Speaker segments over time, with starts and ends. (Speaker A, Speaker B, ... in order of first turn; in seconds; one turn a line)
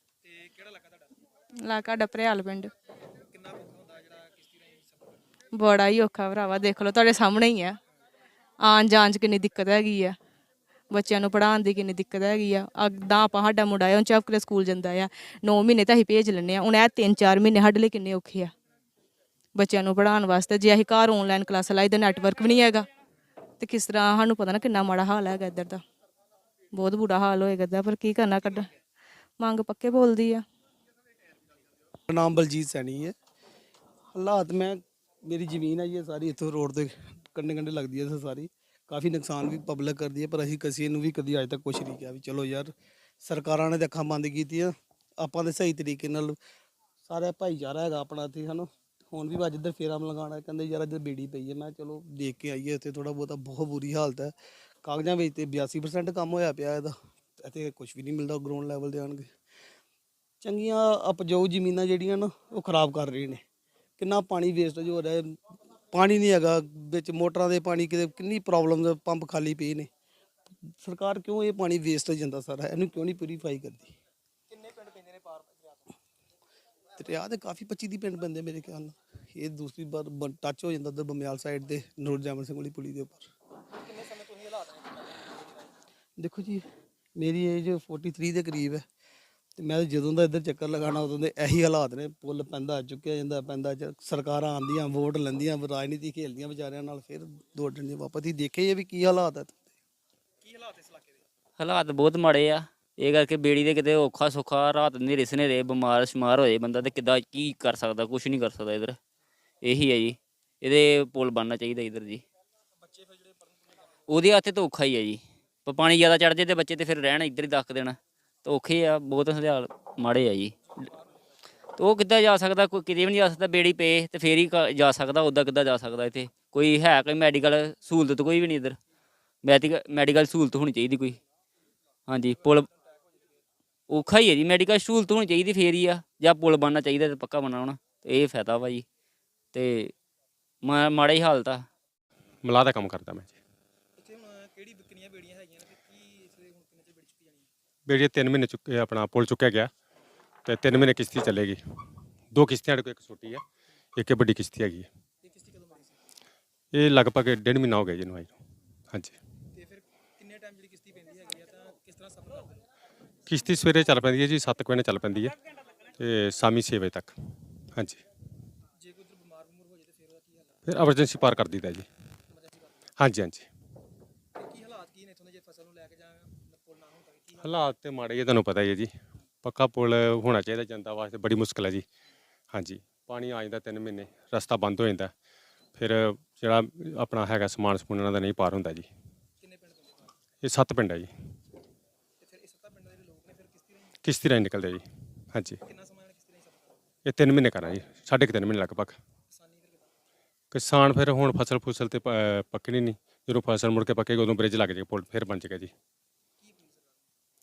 Speaker A: 0.2-1.1
Speaker B: 1.6-2.7
Speaker A: 3.2-5.2
Speaker B: 5.5-7.8
Speaker B: 8.6-10.1
Speaker B: 10.9-18.5
Speaker B: 19.5-22.8
Speaker B: 23.6-25.8
Speaker B: 26.7-28.7
Speaker B: 29.4-30.4
Speaker C: 32.1-33.1
Speaker C: 34.1-46.4
Speaker C: 47.0-59.3
Speaker C: 60.4-63.4
Speaker C: 64.0-65.4
Speaker C: 65.9-69.9
Speaker C: 70.6-73.9
Speaker A: 74.5-76.0
Speaker C: 77.0-83.3
Speaker A: 83.7-85.7
Speaker C: 86.2-86.6
Speaker C: 87.2-88.8
Speaker C: 89.6-99.7
Speaker A: 100.4-101.2
Speaker D: 101.6-109.0
Speaker D: 109.6-112.2
Speaker A: 112.8-113.6
Speaker D: 114.1-120.5
Speaker D: 121.8-128.8
Speaker D: 129.4-131.2
Speaker D: 132.1-132.7
Speaker A: 132.7-133.0
Speaker D: 133.9-138.8
Speaker D: 139.5-139.9
Speaker D: 140.6-141.7
Speaker E: 142.4-143.4
Speaker A: 144.0-147.5
Speaker E: 147.9-149.7
Speaker E: 150.4-151.6
Speaker E: 152.3-153.4
Speaker E: 153.9-154.9
Speaker A: 155.2-156.0
Speaker E: 156.7-158.3
Speaker A: 159.5-162.7
Speaker E: 163.3-165.4
Speaker E: 166.0-167.1
Speaker E: 167.7-168.0
Speaker A: 168.8-170.6
Speaker E: 170.7-171.8
Speaker A: 172.3-172.7
Speaker E: 173.0-173.4
Speaker A: 174.3-177.7
Speaker E: 177.4-178.9
Speaker E: 179.4-181.8
Speaker E: 182.5-185.1
Speaker E: 185.8-188.9
Speaker A: 189.4-190.1
Speaker E: 190.4-191.1
Speaker A: 192.2-193.9
Speaker E: 194.0-195.5
Speaker A: 195.6-196.8
Speaker E: 197.1-199.0
Speaker A: 199.3-199.9
Speaker E: 200.5-205.7
Speaker A: 206.4-207.0